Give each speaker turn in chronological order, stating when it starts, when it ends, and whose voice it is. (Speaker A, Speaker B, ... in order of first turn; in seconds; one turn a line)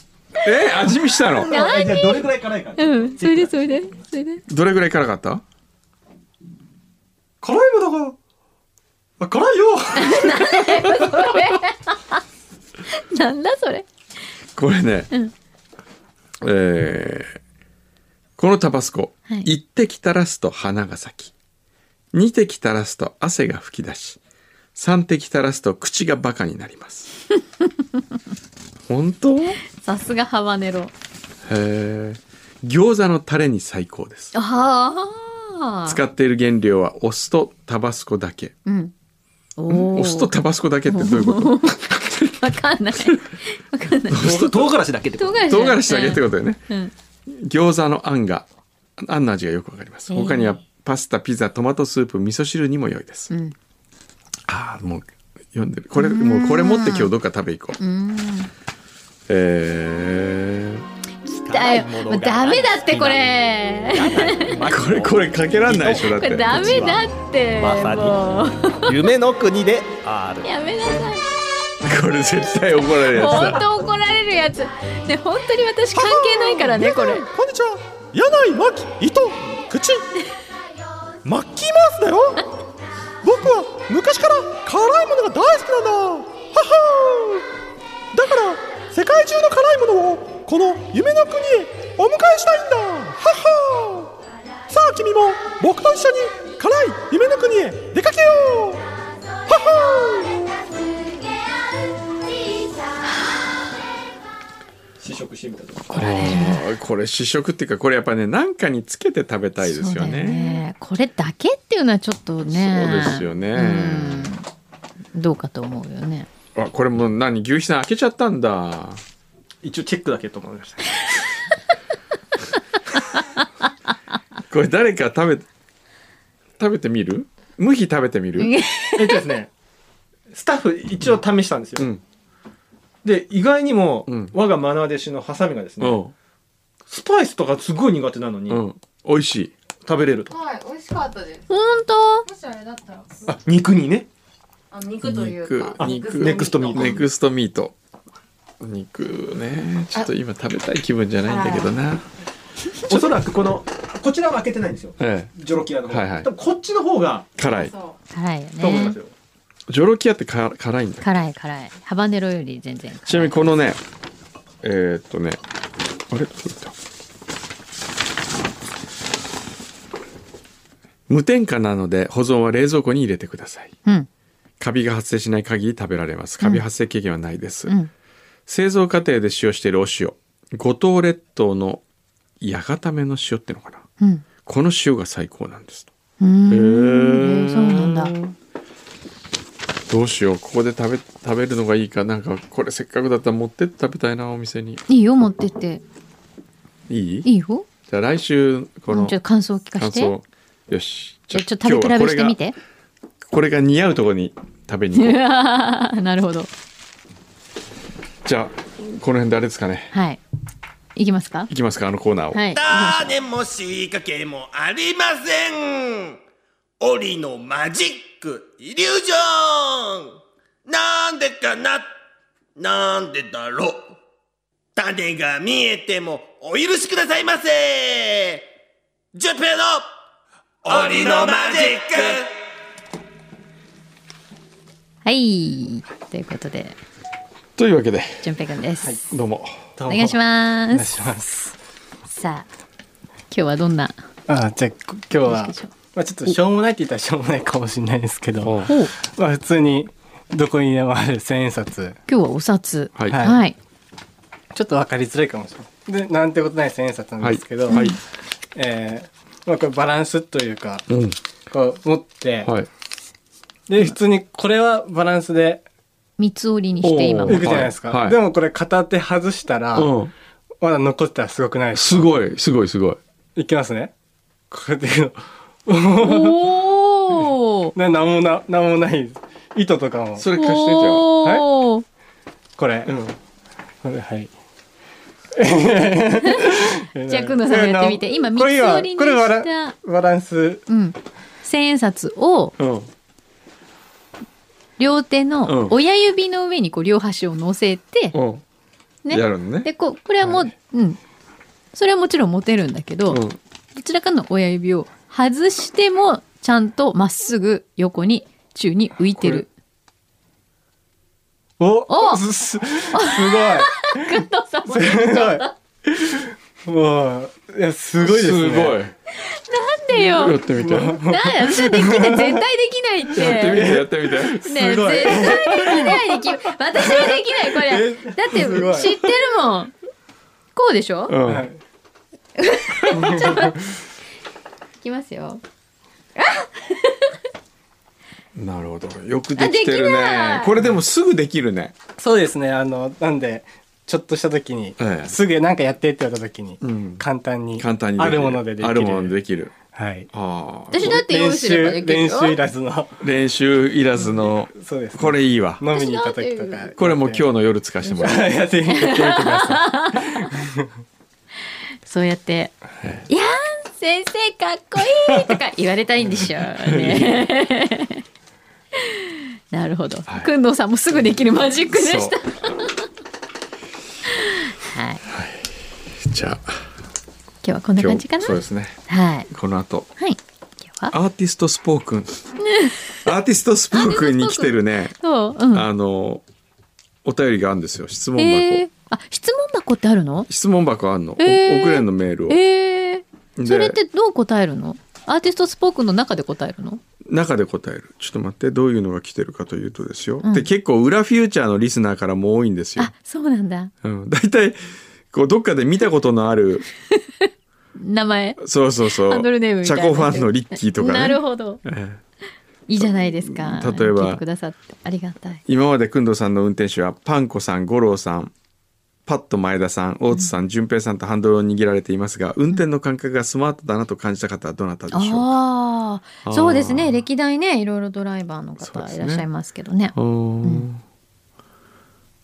Speaker A: 0.4-1.5
Speaker B: 1.3-4.0
Speaker C: 1.4-4.4
Speaker A: 4.5-5.4
Speaker B: 7.4-8.2
Speaker B: 9.2-11.1
Speaker C: 9.9-12.2
Speaker C: 12.9-13.8
Speaker A: 14.6-15.1
Speaker A: 16.4-17.4
Speaker A: 18.4-21.3
Speaker A: 22.1-24.2
Speaker A: 24.7-27.1
Speaker A: 28.9-29.6
Speaker C: 29.7-30.9
Speaker A: 31.4-34.3
Speaker C: 34.3-36.0
Speaker A: 35.9-38.5
Speaker C: 38.6-38.9
Speaker C: 39.6-40.4
Speaker A: 39.7-42.4
Speaker C: 40.9-44.2
Speaker A: 44.1-44.8
Speaker B: 44.1-45.5
Speaker C: 45.2-46.9
Speaker A: 45.4-46.6
Speaker A: 47.3-48.5
Speaker A: 49.0-53.3
Speaker C: 50.1-50.6
Speaker C: 53.3-53.5
Speaker A: 54.5-57.8
Speaker C: 55.9-57.1
Speaker C: 57.8-58.5
Speaker A: 59.3-60.9
Speaker C: 61.2-64.7
Speaker B: 61.4-63.4
Speaker B: 63.9-70.5
Speaker A: 64.6-67.0
Speaker C: 65.9-69.0
Speaker C: 70.4-71.3
Speaker A: 71.8-73.7
Speaker C: 73.0-77.2
Speaker B: 75.9-80.1
Speaker B: 81.2-82.4
Speaker B: 83.2-87.5
Speaker B: 88.1-94.1
Speaker B: 94.7-98.8
Speaker B: 99.5-100.4
Speaker B: 105.0-105.9
Speaker C: 105.9-106.6
Speaker A: 105.9-110.6
Speaker C: 109.6-114.5
Speaker A: 112.5-114.3
Speaker C: 115.1-116.3
Speaker A: 116.5-119.0
Speaker B: 119.6-121.0
Speaker A: 124.5-125.5
Speaker A: 126.6-128.5
Speaker C: 128.4-129.3
Speaker B: 128.9-129.5
Speaker B: 130.3-131.9
Speaker B: 133.0-136.0
Speaker A: 134.1-134.3
Speaker A: 135.8-136.1
Speaker B: 136.9-138.6
Speaker A: 138.5-139.5
Speaker B: 139.8-140.3
Speaker D: 140.3-141.5
Speaker C: 141.5-142.2
Speaker D: 142.2-143.4
Speaker B: 143.3-144.1
Speaker D: 144.7-147.0
Speaker A: 145.0-147.8
Speaker B: 145.8-147.0
Speaker A: 148.6-152.1
Speaker D: 151.2-151.7
Speaker B: 152.9-157.3
Speaker A: 155.0-155.3
Speaker A: 155.9-156.3
Speaker A: 157.4-157.7
Speaker D: 157.4-158.0
Speaker C: 158.1-159.0
Speaker B: 158.6-159.1
Speaker A: 159.7-161.1
Speaker C: 161.0-163.4
Speaker A: 163.1-163.8
Speaker A: 164.6-165.4
Speaker A: 166.1-166.8
Speaker A: 171.1-173.7
Speaker A: 174.6-177.8
Speaker A: 178.5-181.8
Speaker A: 182.4-183.9
Speaker C: 184.0-184.2
Speaker A: 184.4-185.9
Speaker C: 186.2-188.2
Speaker A: 186.5-188.3
Speaker A: 189.9-194.8
Speaker C: 194.9-195.8
Speaker A: 196.9-197.3
Speaker C: 197.2-197.7
Speaker A: 197.9-199.2
Speaker C: 198.9-200.1
Speaker A: 199.7-202.4
Speaker C: 201.3-202.6
Speaker A: 203.2-205.2
Speaker C: 204.9-206.5
Speaker A: 208.2-209.9
Speaker C: 209.9-210.2
Speaker C: 210.9-211.5
Speaker A: 211.5-212.5
Speaker C: 212.3-213.1
Speaker E: 212.5-216.2
Speaker E: 216.8-221.9
Speaker E: 222.6-223.9
Speaker E: 224.7-228.5
Speaker E: 229.1-229.9
Speaker E: 230.6-232.3
Speaker B: 230.7-231.4
Speaker C: 235.0-236.8
Speaker A: 237.6-238.3
Speaker C: 238.2-239.0
Speaker A: 239.1-239.7
Speaker F: 239.8-241.5
Speaker C: 239.9-240.9
Speaker C: 242.1-242.5
Speaker C: 243.3-244.0
Speaker F: 244.3-251.9
Speaker C: 245.2-245.7
Speaker A: 248.4-248.7
Speaker C: 248.7-248.9
Speaker C: 252.1-253.6
Speaker A: 252.9-253.2
Speaker F: 253.1-253.4
Speaker F: 254.5-257.9
Speaker A: 257.2-258.0
Speaker C: 257.7-258.0
Speaker F: 258.5-260.9
Speaker A: 260.9-261.2
Speaker F: 261.5-262.5
Speaker F: 263.7-265.6
Speaker C: 266.2-267.7
Speaker A: 266.8-268.2
Speaker F: 267.3-269.9
Speaker A: 269.7-270.1
Speaker F: 270.6-272.1
Speaker A: 271.7-273.0
Speaker F: 273.4-273.9
Speaker F: 274.5-276.6
Speaker C: 276.0-277.7
Speaker F: 277.7-280.3
Speaker A: 280.2-281.1
Speaker C: 280.3-281.8
Speaker F: 282.6-283.2
Speaker F: 283.8-284.3
Speaker F: 285.3-290.6
Speaker C: 286.2-289.8
Speaker C: 290.7-292.6
Speaker A: 292.6-292.9
Speaker C: 294.8-298.1
Speaker A: 295.4-295.8
Speaker A: 298.1-298.4
Speaker C: 299.0-301.0
Speaker A: 299.1-299.7
Speaker A: 300.2-300.5
Speaker C: 301.7-303.2
Speaker A: 303.1-303.4
Speaker C: 303.7-309.5
Speaker A: 309.1-309.4
Speaker F: 311.6-314.1
Speaker C: 311.9-312.2
Speaker C: 312.9-315.5
Speaker F: 314.7-318.8
Speaker A: 318.0-318.9
Speaker C: 319.2-320.4
Speaker A: 319.9-321.0
Speaker F: 320.1-322.4
Speaker C: 320.9-323.7
Speaker A: 323.1-325.2
Speaker F: 323.2-326.0
Speaker C: 324.4-329.7
Speaker F: 326.7-329.0
Speaker C: 330.5-331.1
Speaker A: 331.1-331.5
Speaker F: 331.2-331.6
Speaker C: 332.4-333.6
Speaker A: 332.9-333.2
Speaker C: 334.8-335.4
Speaker C: 336.2-337.1
Speaker A: 338.3-341.8
Speaker C: 339.4-340.6
Speaker F: 342.0-350.1
Speaker A: 344.8-345.2
Speaker A: 346.6-347.0
Speaker A: 347.6-349.6
Speaker A: 350.1-351.0
Speaker C: 350.7-352.4
Speaker F: 350.8-353.0
Speaker A: 353.0-355.6
Speaker F: 354.0-357.2
Speaker C: 355.7-356.7
Speaker A: 356.8-358.3
Speaker F: 357.9-360.7
Speaker C: 358.7-360.3
Speaker C: 361.8-362.6
Speaker A: 362.8-363.1
Speaker C: 363.1-368.0
Speaker A: 366.1-367.2
Speaker C: 368.8-372.7
Speaker A: 370.1-370.3
Speaker A: 371.7-372.2
Speaker C: 374.1-375.0
Speaker A: 375.1-376.7
Speaker C: 377.4-379.3
Speaker A: 377.8-379.9
Speaker C: 380.0-380.9
Speaker A: 380.9-382.2
Speaker C: 382.4-382.9
Speaker A: 383.0-384.9
Speaker C: 383.7-385.7
Speaker A: 385.5-386.2
Speaker A: 387.0-388.6
Speaker C: 388.1-390.3
Speaker A: 390.3-392.4
Speaker C: 391.2-396.8
Speaker A: 393.4-393.8
Speaker A: 397.0-402.9
Speaker C: 400.2-400.5
Speaker C: 402.8-403.7
Speaker A: 403.8-406.6
Speaker C: 407.8-411.6
Speaker A: 408.4-412.0
Speaker C: 412.7-415.4
Speaker A: 412.8-414.2
Speaker A: 415.4-418.3
Speaker A: 419.1-425.3
Speaker C: 424.9-430.7
Speaker A: 426.2-427.0
Speaker A: 428.6-429.2
Speaker A: 429.9-430.8